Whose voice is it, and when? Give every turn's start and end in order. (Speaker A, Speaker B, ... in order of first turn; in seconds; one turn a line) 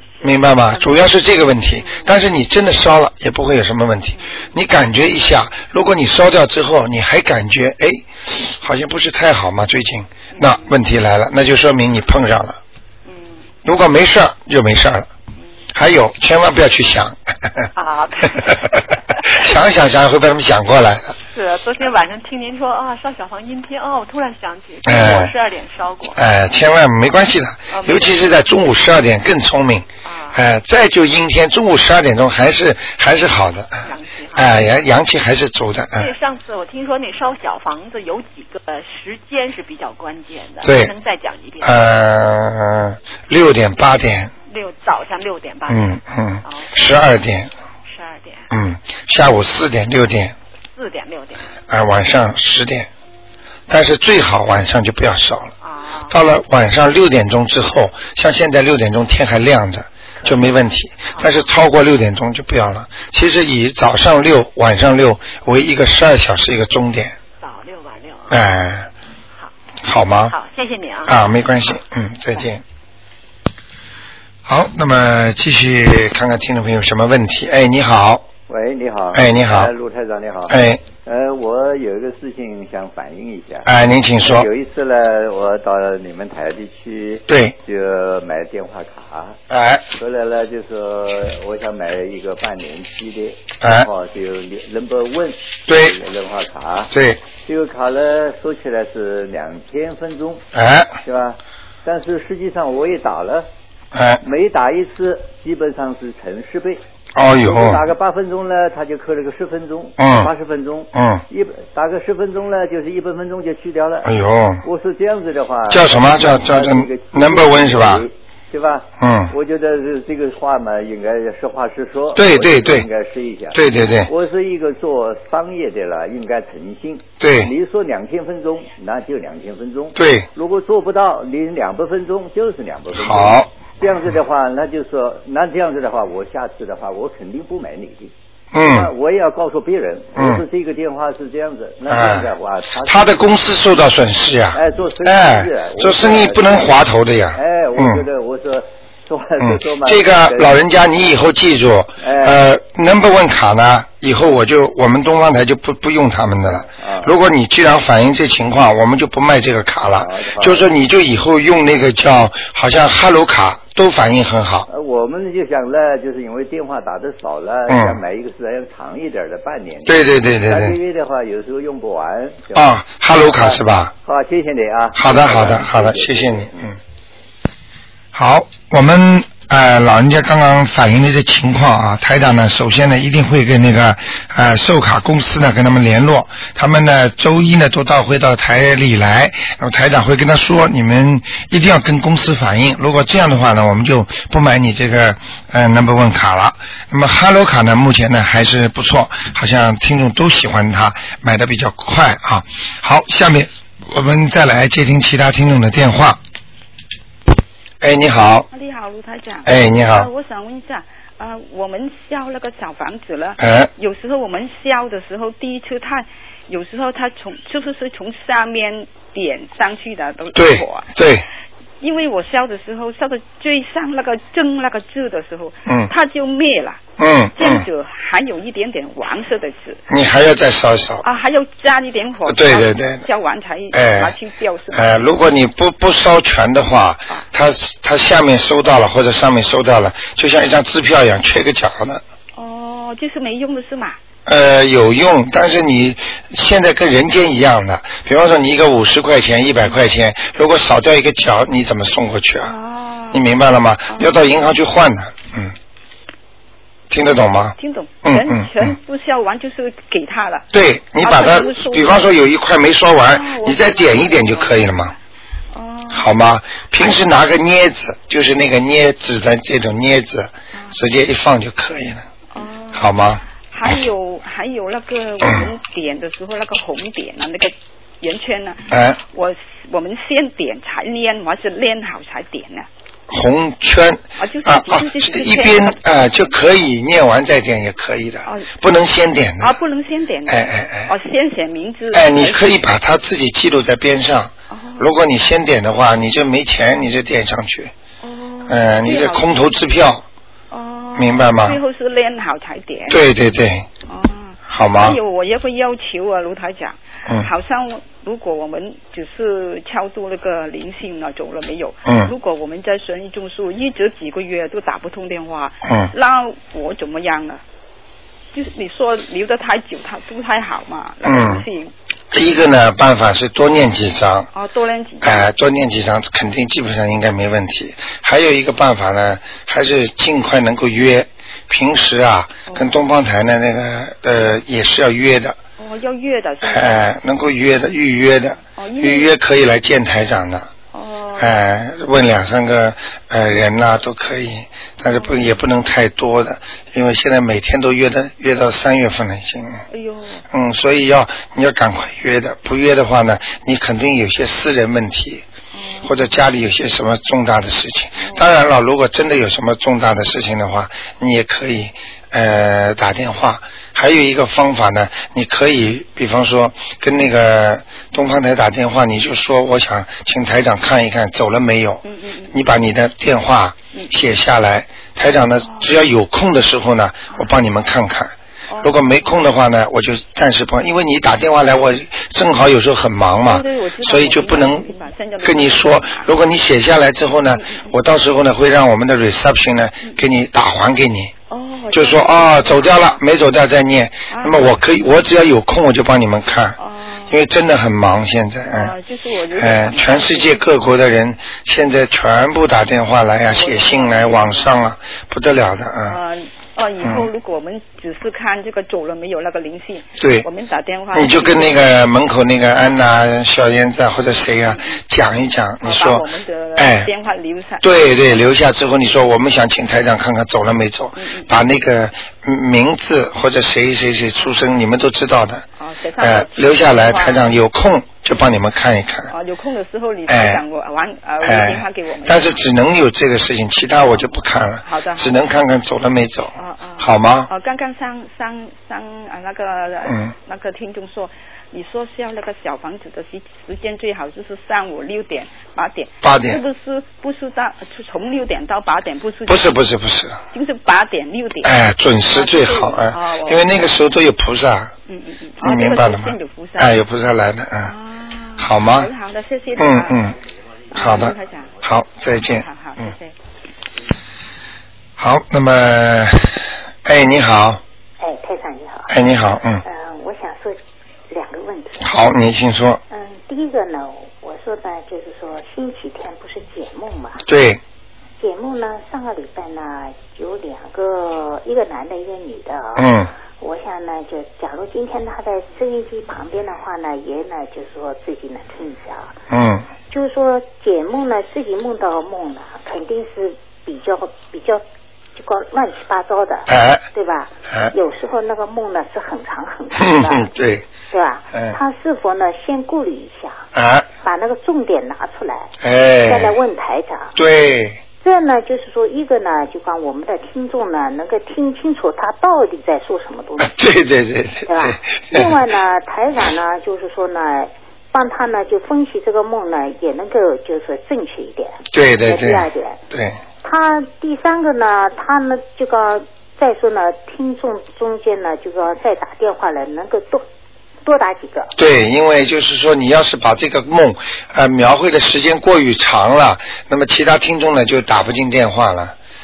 Speaker A: 0.2-1.1
Speaker B: 0.2-12.6
Speaker A: 1.8-2.1
Speaker A: 4.2-4.5
Speaker A: 10.3-10.8
Speaker A: 13.1-13.5
Speaker B: 13.7-15.1
Speaker B: 15.7-17.7
Speaker A: 17.8-19.5
Speaker B: 19.3-21.2
Speaker A: 21.3-26.2
Speaker B: 24.9-25.3
Speaker B: 26.1-36.1
Speaker A: 27.7-28.2
Speaker A: 30.0-30.4
Speaker A: 33.8-34.8
Speaker A: 36.0-41.9
Speaker B: 40.6-40.9
Speaker B: 41.6-44.3
Speaker A: 44.5-46.8
Speaker B: 45.7-47.5
Speaker A: 47.9-48.5
Speaker B: 48.5-50.4
Speaker A: 50.7-51.5
Speaker B: 51.7-52.9
Speaker B: 53.7-55.5
Speaker A: 55.6-56.2
Speaker B: 56.1-67.2
Speaker A: 60.2-60.5
Speaker A: 61.1-61.5
Speaker A: 67.4-68.4
Speaker B: 68.3-68.9
Speaker B: 69.8-70.3
Speaker A: 70.3-71.7
Speaker B: 71.0-72.6
Speaker B: 74.5-78.2
Speaker C: 78.5-83.7
Speaker B: 79.1-79.7
Speaker B: 80.5-80.8
Speaker B: 83.7-84.5
Speaker C: 84.2-89.4
Speaker B: 87.3-87.6
Speaker B: 89.5-89.9
Speaker C: 90.0-96.9
Speaker B: 93.6-93.9
Speaker B: 95.7-96.0
Speaker B: 96.9-97.2
Speaker C: 97.5-100.4
Speaker B: 100.5-101.0
Speaker C: 101.0-103.5
Speaker B: 103.9-104.2
Speaker C: 104.2-106.8
Speaker B: 107.2-107.8
Speaker C: 107.4-114.1
Speaker B: 110.0-110.3
Speaker B: 110.9-111.2
Speaker B: 114.0-114.7
Speaker C: 114.6-138.1
Speaker B: 115.7-118.1
Speaker B: 119.0-119.3
Speaker B: 122.2-122.9
Speaker B: 123.5-124.1
Speaker B: 127.2-127.5
Speaker B: 130.0-130.3
Speaker B: 132.9-133.5
Speaker B: 138.5-138.9
Speaker C: 138.6-143.2
Speaker B: 140.2-140.4
Speaker B: 141.9-142.3
Speaker B: 142.9-148.1
Speaker C: 144.5-146.7
Speaker C: 147.3-150.6
Speaker B: 149.4-164.7
Speaker C: 152.0-152.4
Speaker C: 156.6-157.1
Speaker C: 160.0-160.7
Speaker C: 164.7-176.7
Speaker B: 167.7-168.0
Speaker B: 169.9-170.8
Speaker B: 172.5-173.9
Speaker B: 174.9-176.8
Speaker B: 178.1-206.2
Speaker B: 207.8-208.5
Speaker D: 208.5-220.9
Speaker B: 209.4-210.1
Speaker B: 213.4-213.7
Speaker B: 220.3-221.3
Speaker D: 221.8-226.8
Speaker B: 227.0-227.7
Speaker D: 227.4-229.8
Speaker B: 229.9-231.0
Speaker D: 231.0-235.1
Speaker B: 232.3-233.0
Speaker B: 233.7-234.2
Speaker B: 234.7-242.0
Speaker D: 242.4-244.0
Speaker B: 244.3-252.5
Speaker D: 252.4-253.2
Speaker B: 253.1-255.6
Speaker D: 253.9-254.2
Speaker B: 256.9-258.8
Speaker D: 257.6-260.5
Speaker B: 260.5-264.9
Speaker D: 261.0-262.1
Speaker D: 263.1-265.0
Speaker D: 265.5-266.1
Speaker B: 265.9-272.1
Speaker D: 272.3-282.7
Speaker B: 272.7-273.7
Speaker B: 275.2-275.5
Speaker B: 278.7-279.0
Speaker B: 283.1-289.6
Speaker D: 284.2-286.3
Speaker D: 288.2-288.5
Speaker D: 289.4-292.6
Speaker B: 290.3-290.9
Speaker B: 291.9-297.7
Speaker D: 294.5-294.9
Speaker D: 298.0-299.4
Speaker B: 298.5-300.1
Speaker D: 300.5-303.0
Speaker B: 301.0-301.6
Speaker B: 302.9-303.7
Speaker D: 303.9-317.4
Speaker B: 304.5-305.0
Speaker B: 311.9-312.1
Speaker B: 315.6-315.9
Speaker D: 318.3-321.7
Speaker B: 321.0-321.4
Speaker B: 322.1-324.3
Speaker D: 324.3-325.3
Speaker B: 325.0-335.4
Speaker D: 332.5-332.8
Speaker D: 335.6-336.9
Speaker B: 336.4-340.5
Speaker D: 338.4-339.1
Speaker D: 340.7-341.4
Speaker B: 341.2-349.6
Speaker D: 344.9-345.3
Speaker D: 349.7-350.2
Speaker B: 350.3-355.2
Speaker D: 355.5-356.2
Speaker B: 355.8-384.7
Speaker D: 358.0-358.3
Speaker D: 371.9-372.3
Speaker D: 378.5-378.9
Speaker D: 383.2-386.1
Speaker B: 385.2-391.1
Speaker D: 387.3-387.7
Speaker D: 391.3-393.0
Speaker B: 391.7-396.6
Speaker D: 394.1-394.5
Speaker D: 396.6-397.2
Speaker B: 397.1-398.8
Speaker D: 398.5-400.4
Speaker B: 399.3-406.0
Speaker D: 403.3-404.5
Speaker D: 405.9-411.7
Speaker B: 406.8-407.1
Speaker B: 410.0-410.3
Speaker B: 410.9-416.1
Speaker D: 414.5-414.8
Speaker D: 415.6-418.2
Speaker B: 416.6-416.9
Speaker B: 417.6-425.4
Speaker D: 421.0-421.3
Speaker D: 424.2-424.4
Speaker D: 425.6-427.3
Speaker B: 426.0-429.1
Speaker D: 429.1-432.4
Speaker B: 430.1-430.4
Speaker B: 431.2-437.3
Speaker D: 434.6-435.2
Speaker D: 436.4-449.6
Speaker B: 439.9-440.1
Speaker B: 446.0-446.4
Speaker B: 449.3-450.2
Speaker D: 450.3-451.6
Speaker B: 451.4-454.7
Speaker D: 452.1-453.5
Speaker D: 454.9-456.8
Speaker B: 455.4-457.7
Speaker D: 457.6-460.1
Speaker B: 458.4-458.9
Speaker B: 459.6-460.2
Speaker D: 460.7-461.6
Speaker B: 460.7-462.5
Speaker D: 462.2-463.1
Speaker B: 465.0-467.6
Speaker E: 468.0-468.9
Speaker B: 468.9-469.6
Speaker E: 469.6-470.6
Speaker E: 471.1-471.9
Speaker B: 471.8-472.8
Speaker E: 472.9-477.2
Speaker B: 477.3-477.6
Speaker E: 478.2-489.1
Speaker B: 482.8-483.1
Speaker B: 489.3-489.7
Speaker E: 489.9-494.6
Speaker E: 495.2-500.3
Speaker B: 496.5-496.8
Speaker B: 499.8-500.7
Speaker E: 500.9-503.5
Speaker B: 503.5-503.9
Speaker E: 504.0-505.5
Speaker B: 505.6-506.4
Speaker E: 506.1-507.2
Speaker B: 507.2-507.8
Speaker E: 508.0-513.5
Speaker B: 513.4-515.4
Speaker E: 514.5-522.8
Speaker B: 521.7-523.2
Speaker E: 523.4-530.2
Speaker E: 530.9-531.5
Speaker B: 531.6-539.0